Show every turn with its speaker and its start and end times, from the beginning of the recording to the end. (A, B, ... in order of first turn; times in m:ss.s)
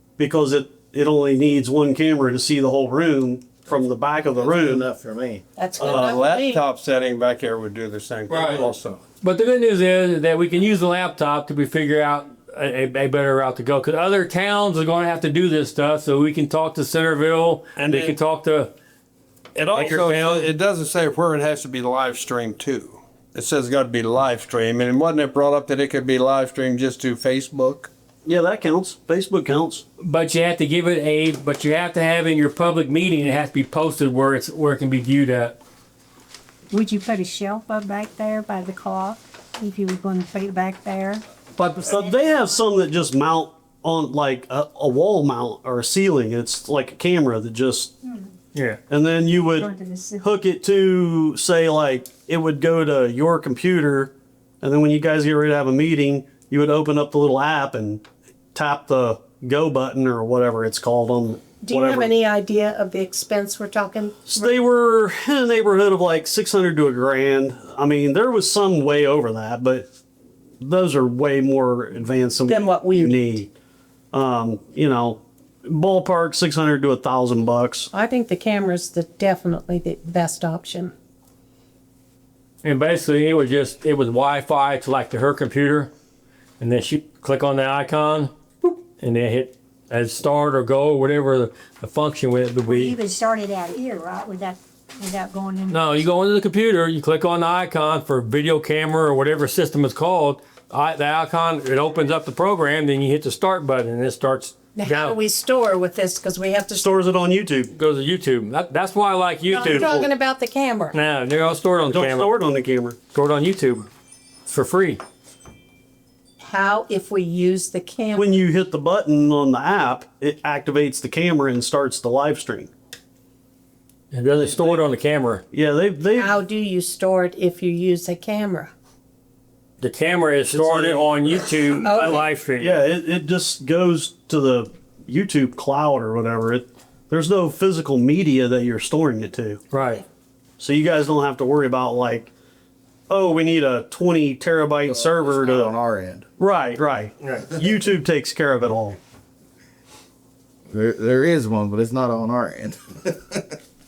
0:00.2-0:04.9 A
0:04.4-0:05.4 B
0:05.6-0:06.6 C
0:05.8-0:06.2 A
0:05.8-0:09.0 D
0:08.3-0:08.7 E
0:09.2-0:18.7 E
0:17.8-0:18.1 D
0:19.6-0:27.9 D
0:28.2-0:29.8 A
0:30.0-0:35.6 E
0:36.7-0:41.2 F
0:41.6-0:48.0 A
0:42.0-0:42.6 F
0:48.5-0:48.8 E
0:48.9-1:02.1 A
0:49.3-0:50.3 F
1:01.6-1:04.5 C
1:04.3-1:09.9 A
1:10.6-1:13.5 A
1:12.5-1:13.4 C
1:14.1-1:17.9 A
1:17.9-1:20.9 C
1:22.6-1:25.9 E
1:26.6-1:33.0 E
1:32.6-1:35.9 F
1:35.7-1:45.2 E
1:44.8-1:47.0 C
1:46.8-1:47.7 A
1:47.7-1:50.1 E
1:49.5-1:51.0 C
1:49.6-1:49.9 A
1:50.9-1:52.3 E
1:51.8-1:53.0 A
1:53.1-1:53.9 E
1:54.5-1:55.0 E
1:56.4-1:58.4 C
1:58.2-2:02.7 A
2:04.1-2:05.4 E
2:05.5-2:06.4 A
2:06.2-2:08.7 C
2:09.8-2:12.8 E
2:10.5-2:11.1 A
2:11.8-2:12.3 C
2:12.0-2:19.6 A
2:19.7-2:20.0 E
2:20.6-2:22.3 A
2:23.1-2:25.8 A
2:24.9-2:26.3 B
2:26.4-2:29.0 A
2:27.2-2:27.5 E
2:30.7-2:33.5 B